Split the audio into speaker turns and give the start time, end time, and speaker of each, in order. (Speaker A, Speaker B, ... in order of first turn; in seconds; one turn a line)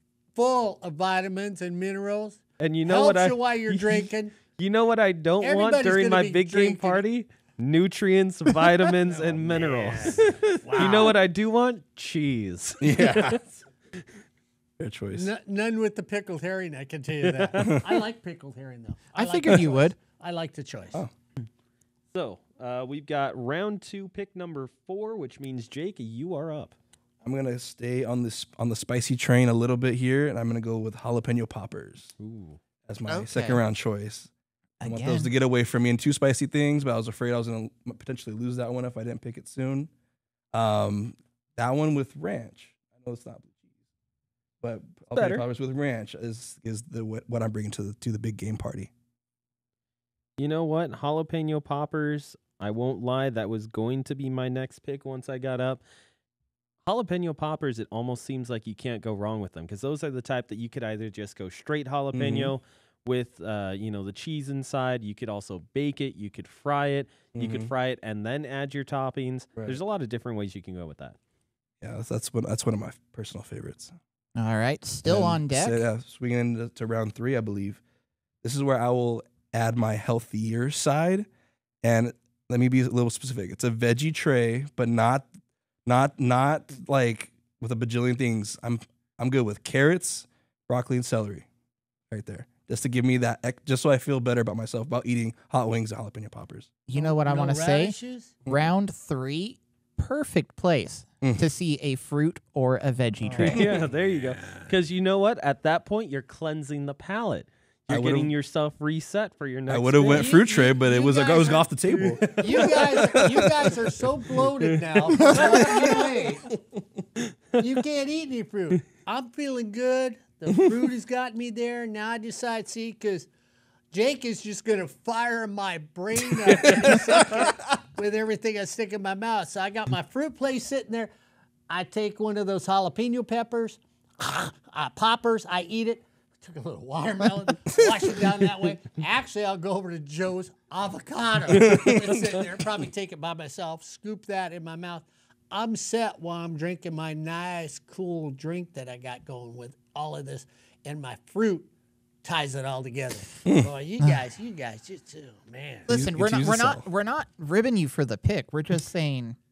Speaker A: 0.3-4.3
Speaker B: 2.6-13.4
Speaker A: 5.4-7.0
Speaker A: 9.1-11.2
Speaker C: 10.2-11.0
Speaker C: 12.8-13.4
Speaker C: 14.8-15.3
Speaker A: 15.1-21.0
Speaker B: 17.2-17.8
Speaker D: 19.1-20.0
Speaker B: 22.1-26.7
Speaker C: 27.2-32.1
Speaker B: 32.2-32.6
Speaker C: 32.9-34.3
Speaker D: 33.1-33.6
Speaker D: 34.8-35.3
Speaker C: 34.8-39.9
Speaker C: 40.5-43.6
Speaker C: 44.6-48.9
Speaker B: 45.1-45.4
Speaker B: 50.4-55.8
Speaker B: 56.8-71.2
Speaker C: 62.1-62.5
Speaker C: 67.3-67.7
Speaker C: 71.8-74.0
Speaker D: 74.3-75.8
Speaker C: 75.0-77.8
Speaker C: 78.4-81.3
Speaker C: 81.8-85.3
Speaker C: 85.8-91.5
Speaker C: 92.1-96.7
Speaker D: 96.9-103.7
Speaker A: 96.9-98.3
Speaker A: 103.2-103.8
Speaker C: 103.4-103.8
Speaker B: 103.5-110.4
Speaker C: 107.9-108.3
Speaker C: 109.7-113.7
Speaker A: 110.0-116.5
Speaker B: 112.2-113.2
Speaker B: 115.1-116.0
Speaker A: 117.6-123.3
Speaker A: 123.9-131.1
Speaker C: 126.9-127.4
Speaker A: 131.7-151.7
Speaker C: 141.5-142.2
Speaker A: 152.2-155.9
Speaker C: 155.9-156.8
Speaker D: 155.9-159.4